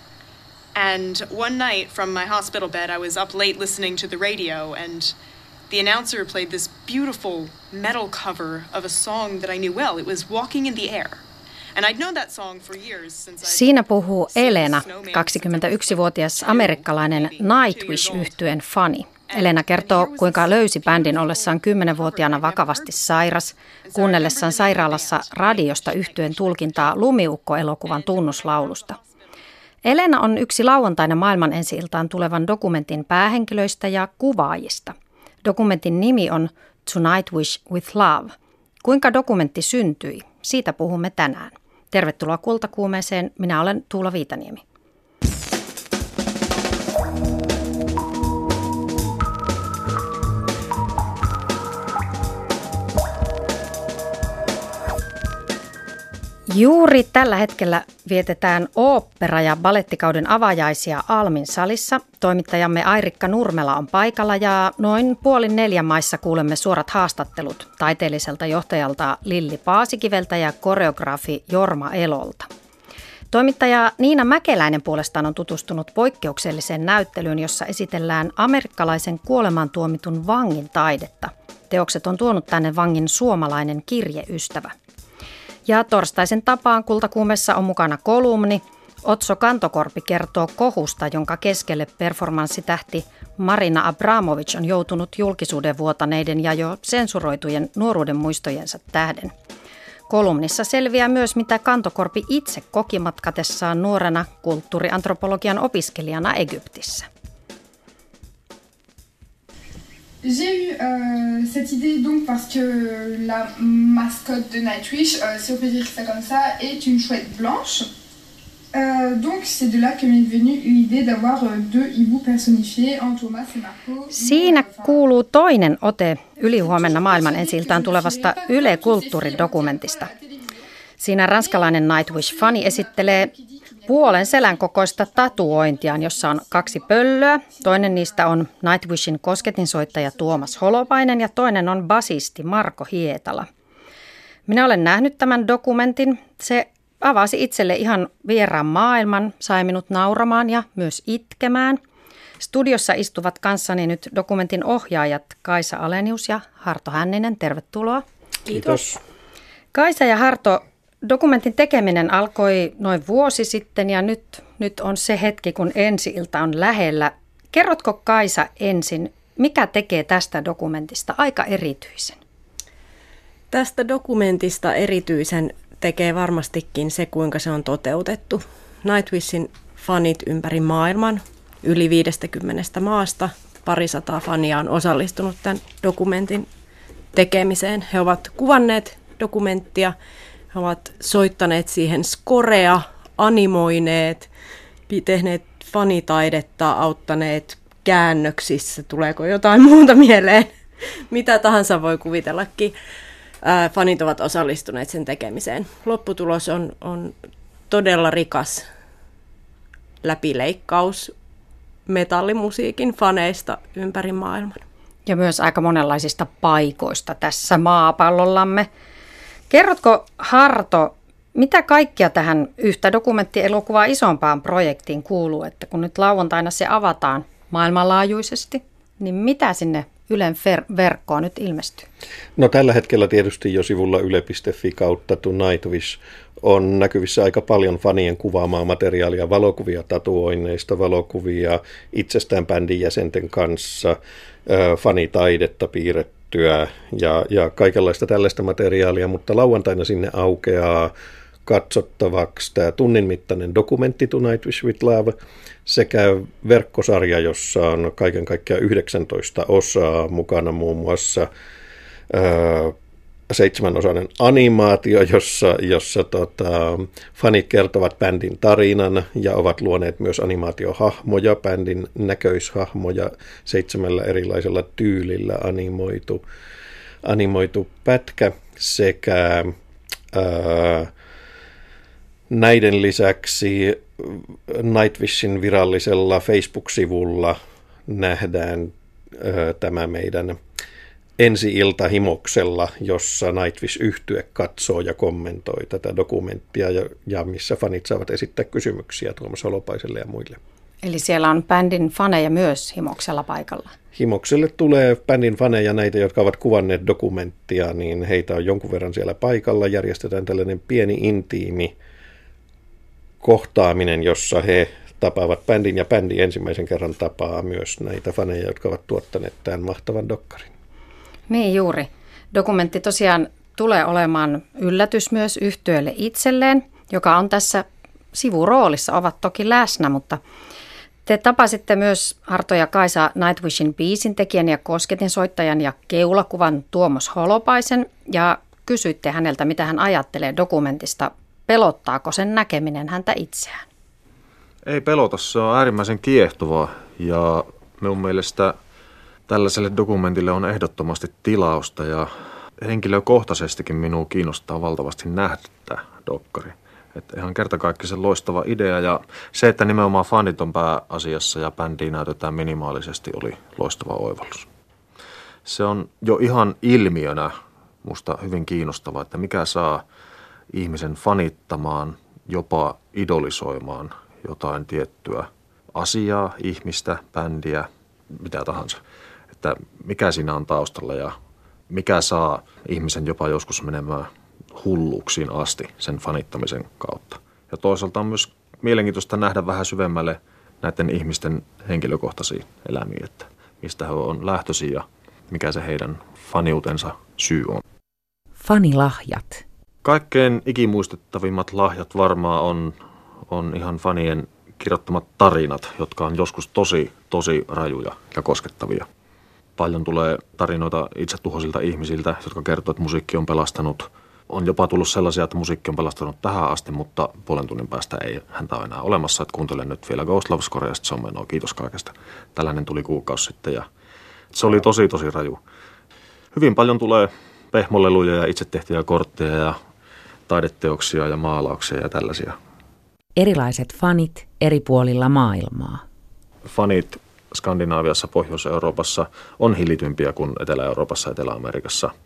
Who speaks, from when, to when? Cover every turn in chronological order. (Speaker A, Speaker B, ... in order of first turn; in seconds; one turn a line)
Speaker A: 0.7-5.2
Speaker A: 5.7-11.2
Speaker A: 11.7-18.4
Speaker B: 13.4-29.0
Speaker A: 19.3-22.9
Speaker A: 23.8-27.0
Speaker A: 27.8-29.2
Speaker B: 29.8-44.6
Speaker B: 56.5-72.5
Speaker B: 73.3-84.7
Speaker B: 85.7-99.3
Speaker B: 100.1-107.1
Speaker C: 110.2-117.9
Speaker C: 118.7-125.0
Speaker B: 124.1-130.1
Speaker C: 126.6-130.5
Speaker B: 131.0-133.3
Speaker C: 132.4-134.2
Speaker B: 133.8-143.5
Speaker B: 144.5-151.8
Speaker B: 152.4-158.0
Speaker D: 158.5-159.0
Speaker B: 159.7-172.2
Speaker E: 173.5-186.5
Speaker E: 187.1-189.9
Speaker E: 190.5-194.3
Speaker E: 194.9-200.6
Speaker E: 201.1-202.7
Speaker E: 203.4-207.1
Speaker E: 207.7-208.7
Speaker E: 210.0-211.1
Speaker E: 211.9-214.6
Speaker B: 215.1-218.7
Speaker B: 219.5-231.9
Speaker D: 232.4-250.9
Speaker D: 251.4-255.1
Speaker D: 255.7-261.3
Speaker D: 262.1-262.8
Speaker D: 263.3-276.2
Speaker D: 277.0-279.5
Speaker D: 280.1-280.9
Speaker D: 282.3-290.4
Speaker D: 291.2-300.4
Speaker B: 300.8-303.7
Speaker D: 303.9-311.7
Speaker D: 313.2-320.5
Speaker B: 321.3-330.2
Speaker B: 331.1-343.6
Speaker F: 344.6-348.6
Speaker F: 349.3-352.1
Speaker F: 352.6-364.5
Speaker F: 365.4-369.8
Speaker F: 370.5-378.8
Speaker F: 379.4-381.1
Speaker F: 381.7-397.6
Speaker G: 398.4-399.4
Speaker F: 399.8-402.8
Speaker F: 403.3-408.9
Speaker F: 409.6-423.7
Speaker F: 424.3-425.4
Speaker F: 426.3-429.6
Speaker F: 430.3-432.4
Speaker G: 433.1-435.8
Speaker F: 436.4-441.9